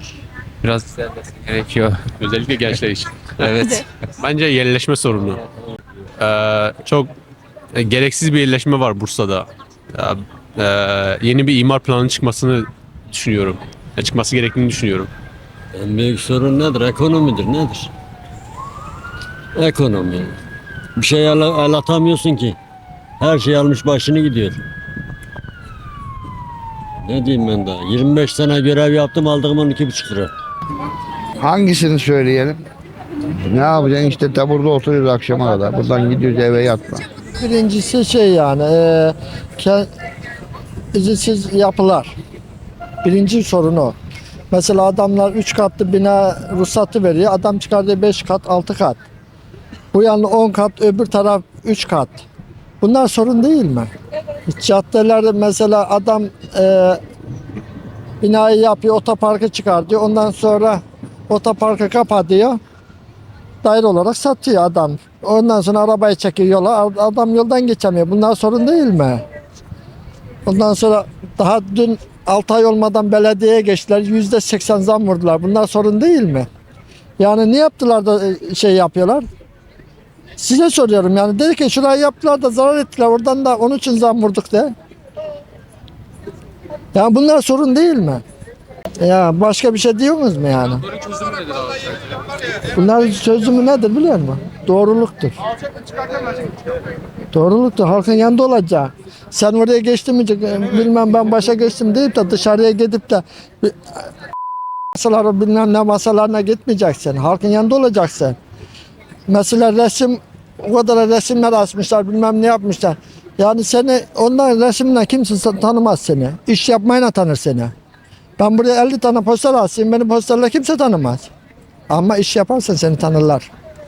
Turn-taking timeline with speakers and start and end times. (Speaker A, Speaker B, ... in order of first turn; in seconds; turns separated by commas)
Speaker A: 0.6-2.1, Speaker B: 2.2-3.5, Speaker A: 3.4-3.8, Speaker B: 4.2-5.4, Speaker B: 6.2-7.1, Speaker B: 7.7-15.1, Speaker C: 15.7-17.9, Speaker C: 19.6-20.4, Speaker C: 21.0-22.6, Speaker C: 23.2-24.6, Speaker C: 27.0-30.3, Speaker D: 31.5-32.5, Speaker D: 33.6-37.0, Speaker E: 37.4-39.9, Speaker E: 40.9-42.1, Speaker E: 43.0-44.0, Speaker E: 44.5-49.0, Speaker E: 49.9-52.2, Speaker E: 52.8-53.9, Speaker E: 54.5-57.0, Speaker E: 58.2-62.6, Speaker E: 63.6-69.2, Speaker E: 70.5-76.5, Speaker E: 77.2-79.2, Speaker E: 80.4-84.7, Speaker E: 86.9-88.2, Speaker E: 89.0-90.9, Speaker E: 92.7-95.4, Speaker E: 97.3-104.1, Speaker E: 104.9-108.4, Speaker E: 109.3-117.7, Speaker E: 118.4-121.3, Speaker E: 121.9-123.5